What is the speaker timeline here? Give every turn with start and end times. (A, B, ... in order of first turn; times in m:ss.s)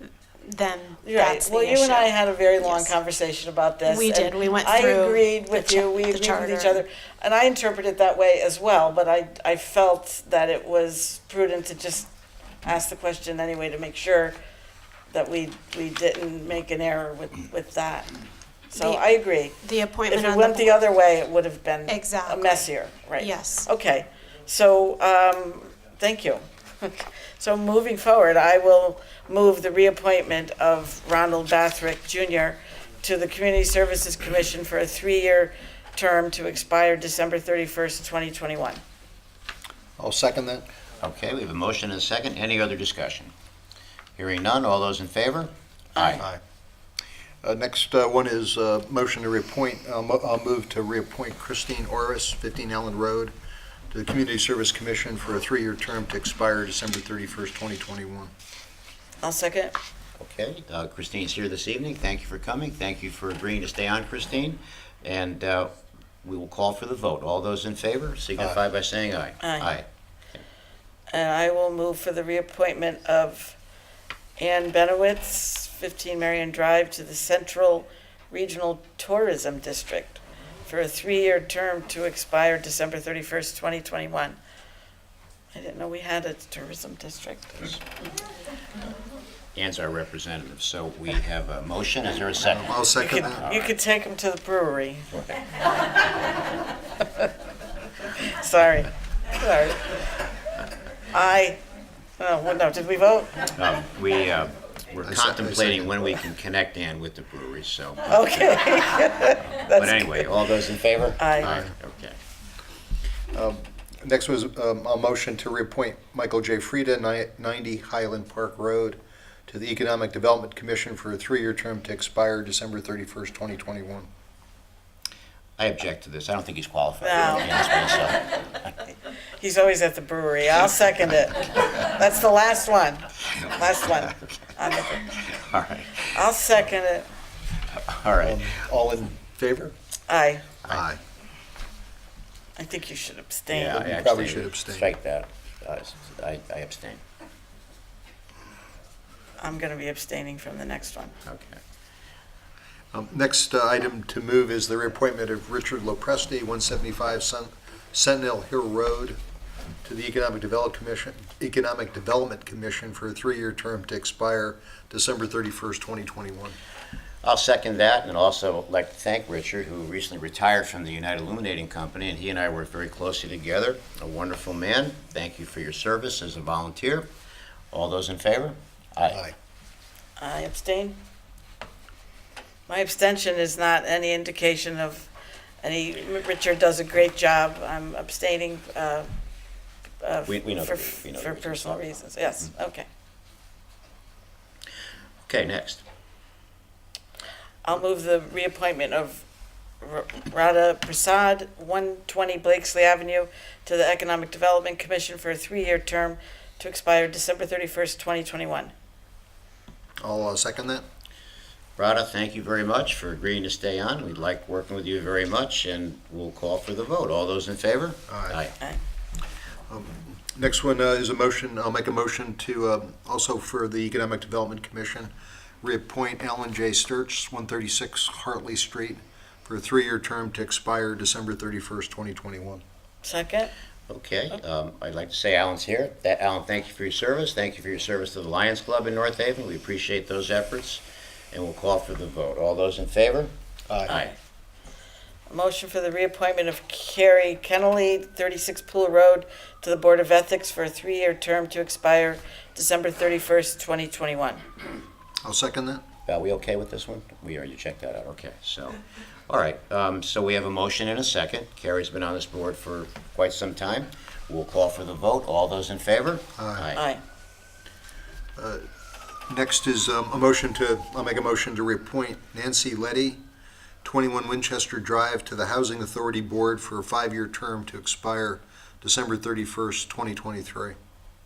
0:00.4-0:03.0 A
0:01.0-0:12.1 B
0:03.9-0:06.8 A
0:12.6-0:14.4 B
0:15.1-0:18.1 B
0:18.7-0:19.1 A
0:18.7-0:38.8 B
0:19.6-0:20.8 A
0:21.9-0:23.7 A
0:40.0-0:40.7 C
0:41.0-0:43.3 D
0:44.2-0:46.2 D
0:46.0-0:46.2 B
0:47.4-0:53.3 C
0:53.9-0:58.3 C
0:59.2-0:59.8 B
1:00.2-1:10.4 D
1:09.4-1:09.7 B
1:11.1-1:13.6 B
1:14.4-1:24.4 B
1:25.5-1:27.8 B
1:29.6-1:33.7 D
1:32.5-1:33.4 C
1:33.0-1:35.1 B
1:38.3-1:40.0 B
1:41.1-1:41.6 B
1:42.2-1:43.5 B
1:43.6-1:48.6 D
1:45.0-1:46.2 C
1:48.1-1:50.4 B
1:49.5-1:52.2 D
1:51.2-1:51.5 B
1:53.3-2:04.1 C
2:05.6-2:08.3 D
2:07.0-2:07.6 B
2:09.4-2:15.0 B
2:15.1-2:16.2 D
2:16.1-2:17.1 B
2:17.8-2:18.4 D
2:18.2-2:19.7 C
2:20.1-2:20.5 B
2:20.6-2:21.0 C
2:22.6-2:23.8 B
2:23.5-2:27.0 D
2:23.7-2:24.9 C
2:29.4-2:31.2 B
2:31.3-2:31.6 D
2:32.9-2:39.2 C
2:39.8-2:46.6 C
2:47.2-2:57.1 D
2:57.7-2:59.2 D
2:59.1-2:59.3 C
3:00.2-3:01.0 B
3:02.7-3:05.1 B
3:05.6-3:09.1 B
3:10.0-3:12.9 B
3:10.3-3:12.0 D
3:15.3-3:15.8 D
3:17.6-3:19.2 B
3:19.8-3:28.7 B
3:30.0-3:30.8 C
3:31.8-3:38.5 D
3:38.1-3:38.4 C
3:39.7-3:45.1 C
3:45.6-3:52.6 C
3:53.0-3:53.5 B
3:53.9-4:03.3 D
4:03.7-4:03.9 C
4:03.9-4:04.1 D
4:05.3-4:14.4 B
4:15.2-4:15.8 C
4:16.1-4:26.8 D
4:26.4-4:26.6 C
4:26.8-4:27.0 B
4:28.4-4:28.6 C
4:29.3-4:33.2 C
4:33.8-4:40.8 C